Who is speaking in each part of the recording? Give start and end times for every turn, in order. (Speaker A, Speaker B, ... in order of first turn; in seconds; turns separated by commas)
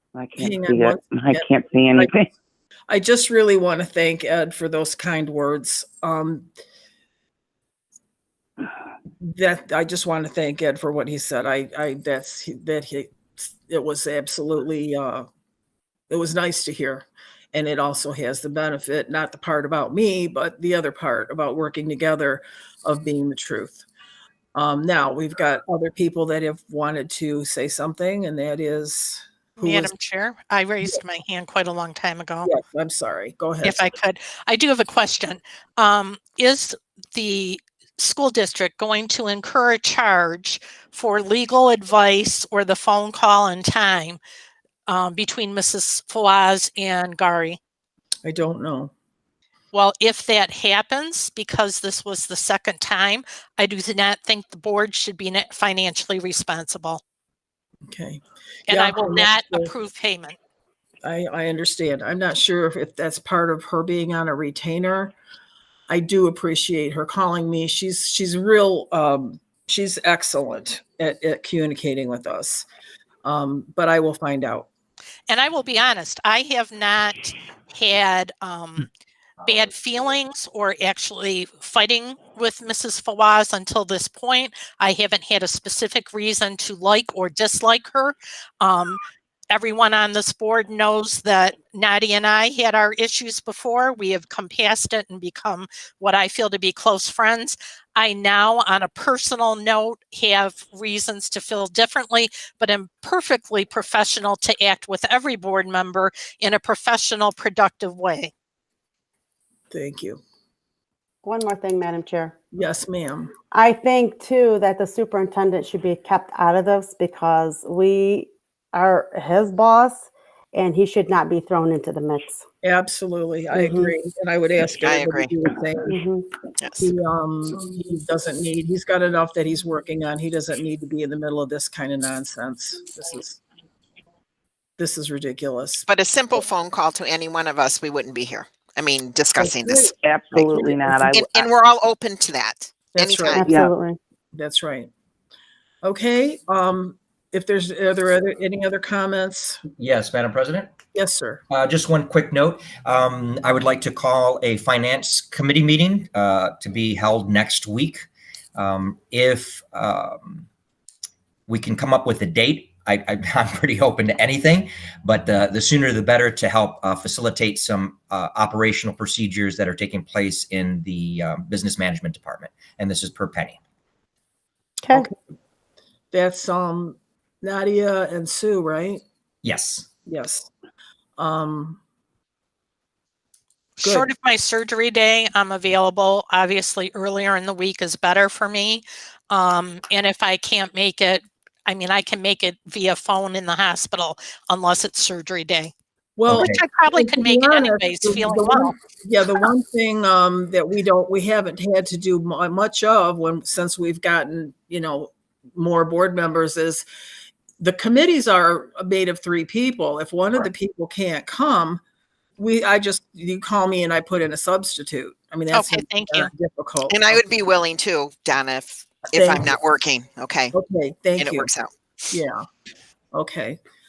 Speaker A: 0.1-2.3, Speaker B: 0.3-2.1, Speaker B: 2.9-6.5, Speaker B: 9.2-15.3, Speaker B: 16.1-23.8, Speaker B: 24.5-29.9, Speaker C: 29.6-32.5, Speaker B: 32.4-33.8, Speaker C: 33.6-44.2, Speaker C: 44.9-47.6, Speaker B: 48.2-48.9, Speaker C: 49.7-57.0, Speaker B: 57.9-59.7, Speaker C: 58.7-60.4, Speaker B: 61.0-65.1, Speaker B: 65.9-72.7, Speaker B: 73.2-74.7, Speaker C: 75.3-78.9, Speaker C: 79.4-108.3, Speaker B: 109.7-110.2, Speaker D: 111.2-112.3, Speaker B: 112.5-113.3, Speaker D: 113.5-122.4, Speaker B: 122.6-126.0, Speaker D: 123.5-123.9, Speaker E: 124.8-125.3, Speaker D: 125.9-126.2, Speaker E: 126.6-126.9, Speaker B: 126.8-133.4, Speaker B: 134.8-135.9, Speaker E: 135.9-139.9, Speaker B: 139.4-140.9, Speaker A: 140.0-141.4, Speaker E: 141.1-143.4, Speaker B: 142.9-143.6, Speaker D: 143.3-144.0, Speaker B: 144.3-144.9, Speaker B: 145.8-149.6, Speaker F: 149.8-150.7, Speaker B: 150.9-151.4, Speaker F: 151.5-160.4, Speaker F: 161.5-173.6, Speaker B: 176.1-179.0, Speaker F: 179.4-179.9, Speaker B: 180.1-180.5, Speaker B: 181.2-181.8, Speaker C: 183.8-195.7, Speaker B: 183.8-184.1, Speaker B: 196.2-206.8, Speaker F: 196.3-196.6, Speaker C: 196.3-198.7, Speaker B: 207.6-211.8, Speaker B: 212.4-217.2, Speaker C: 215.5-216.3, Speaker E: 216.9-220.5, Speaker B: 219.1-219.5, Speaker B: 220.5-221.5, Speaker E: 221.2-222.1, Speaker B: 222.1-222.4, Speaker B: 223.1-223.6